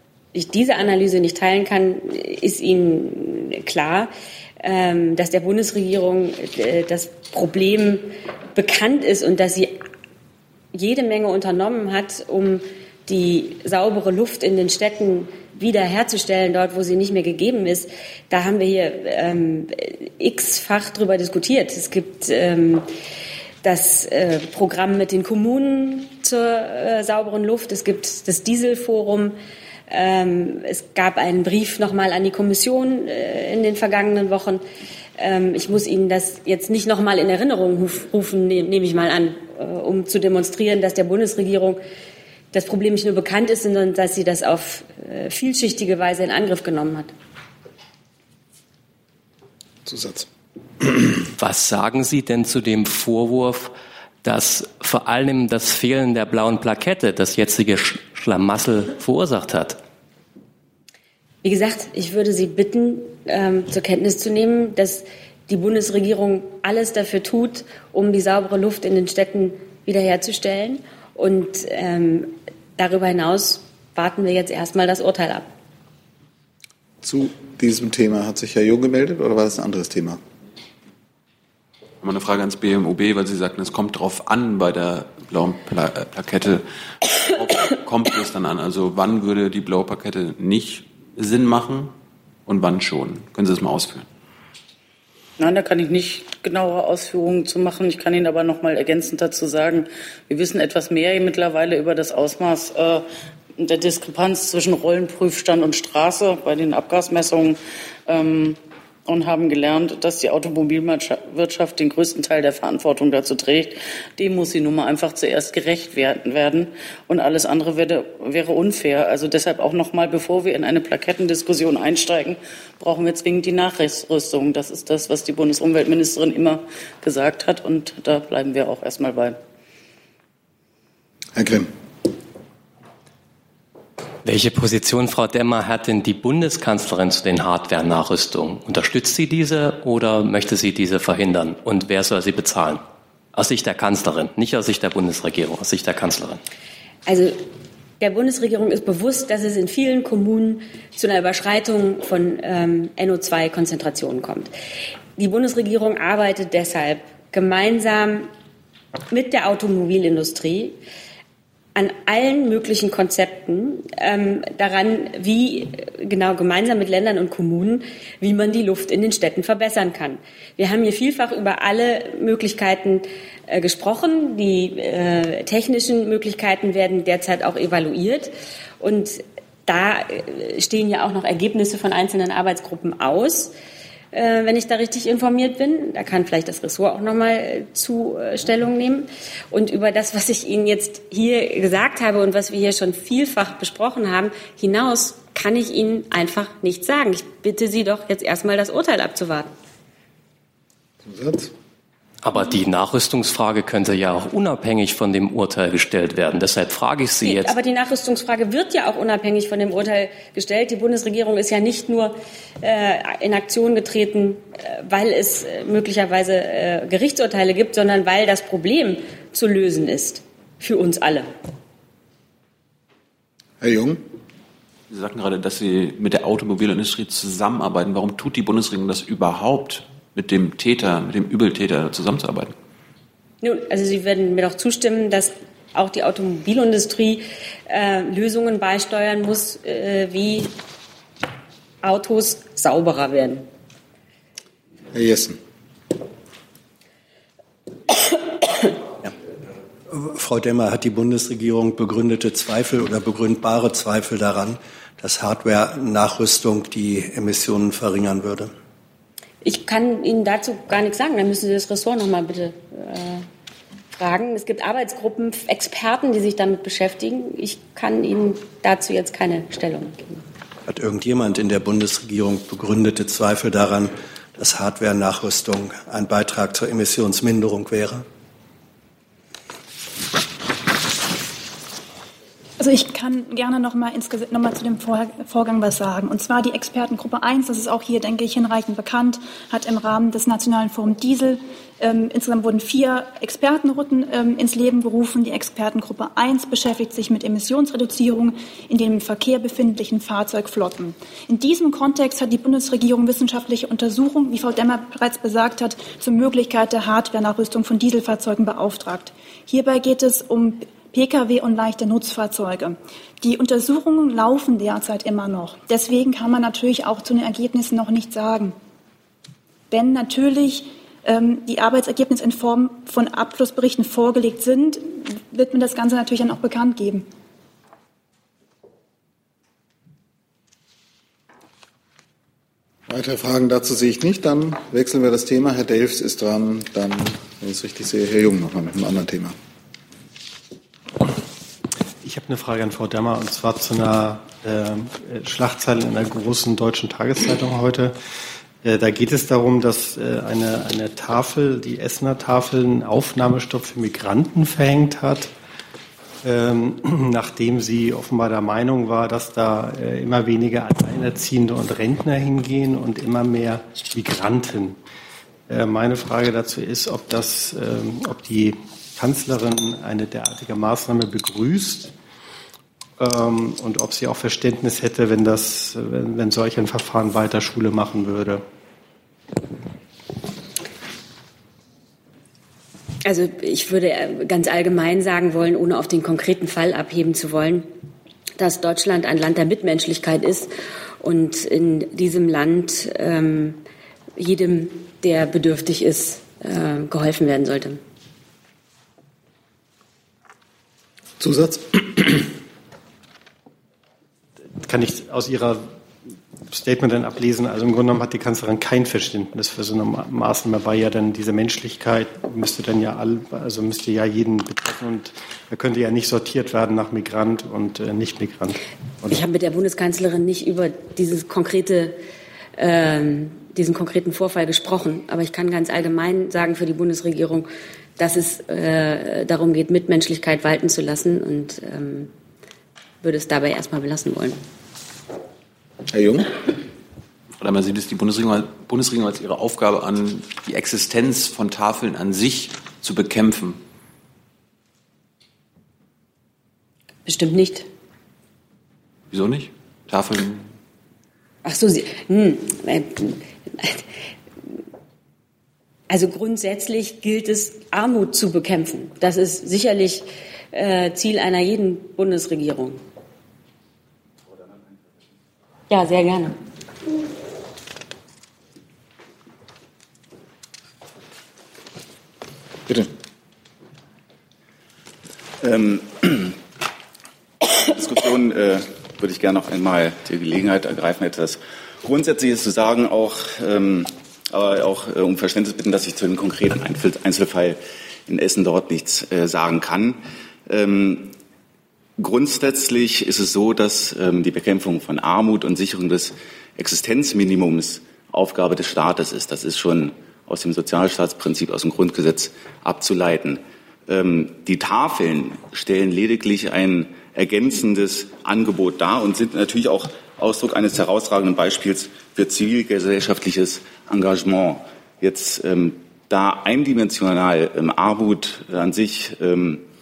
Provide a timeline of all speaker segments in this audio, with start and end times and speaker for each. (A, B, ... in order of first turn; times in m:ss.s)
0:00.3-0:09.8 A
0:10.7-0:22.8 A
0:23.6-0:29.4 A
0:29.9-0:34.6 A
0:35.2-0:41.8 A
0:42.5-0:47.1 A
0:49.8-0:50.3 B
0:50.8-0:51.1 B
0:51.3-0:53.7 C
0:54.2-0:59.8 C
1:01.4-1:15.5 A
1:17.0-1:20.2 B
1:22.0-1:31.9 D
1:32.4-1:34.1 D
1:35.4-1:43.0 E
1:43.6-2:09.4 E
2:11.3-2:11.7 B
2:14.2-2:22.8 C
2:23.3-2:26.4 C
2:27.0-2:27.4 A
2:28.0-2:34.5 A
2:35.2-2:38.3 A
2:39.1-2:40.8 A
2:41.7-3:03.5 A
3:04.1-3:19.5 A
3:21.0-3:21.5 B
3:22.2-3:27.5 C
3:27.2-3:41.3 A
3:43.6-3:44.0 B
3:44.9-3:52.5 D
3:53.4-4:00.5 A
4:01.8-4:03.4 A
4:04.9-4:05.4 B
4:09.9-4:18.5 F
4:19.4-4:23.3 A
4:23.9-4:30.2 A
4:30.7-4:38.0 F
4:42.6-5:18.5 G
5:19.7-5:27.0 G
5:32.9-5:39.3 B
5:42.0-5:48.0 H
5:48.6-5:55.3 H
5:56.2-6:04.8 H
6:05.5-6:11.9 H
6:13.0-6:18.4 H
6:23.0-6:27.7 A
6:28.4-6:33.6 A
6:34.2-6:37.8 A
6:41.2-6:42.3 B
6:44.6-6:45.7 H
6:46.5-6:58.6 H
6:59.0-7:02.0 A
7:02.6-7:12.1 A
7:13.0-7:14.4 A
7:15.9-7:16.4 B
7:17.4-7:23.6 D
7:27.0-7:27.7 A
7:29.1-7:30.5 D
7:31.4-7:33.8 A
7:35.9-7:42.8 A
7:45.7-7:46.4 A
7:55.4-7:56.4 I
7:57.5-8:11.1 I
8:12.0-8:39.6 I